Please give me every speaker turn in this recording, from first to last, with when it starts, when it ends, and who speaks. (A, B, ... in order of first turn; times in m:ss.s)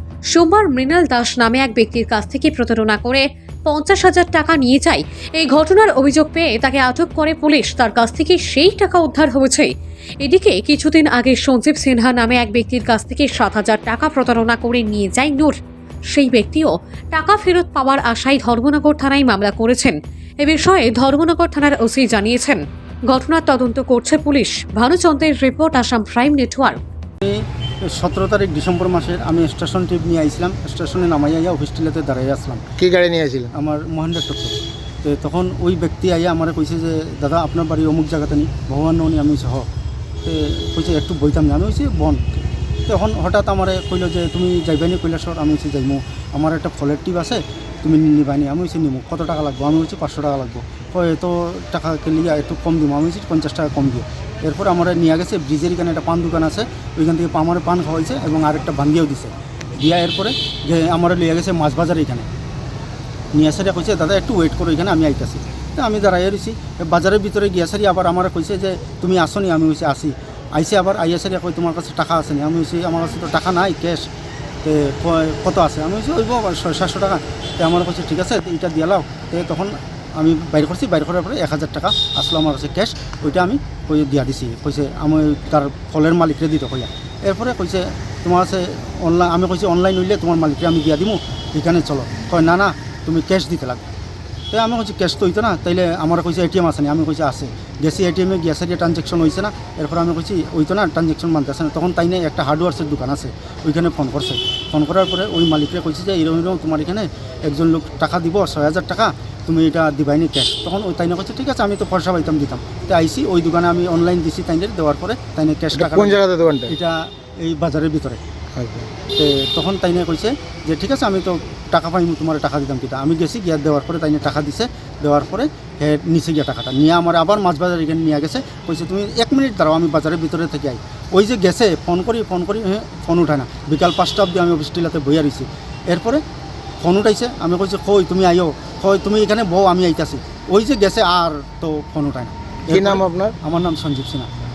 0:00.3-0:09.7 A
0:10.2-0:15.5 A
0:16.1-0:26.8 A
0:27.9-0:32.6 B
0:32.8-0:33.5 C
0:33.5-0:39.7 B
0:40.2-0:42.2 B
0:42.9-1:02.3 B
1:03.3-1:14.0 B
1:14.6-1:33.8 B
1:34.5-1:58.2 B
1:55.7-1:56.7 C
1:58.5-1:58.9 C
1:59.1-2:16.2 B
2:16.8-2:24.3 B
2:22.7-2:23.3 C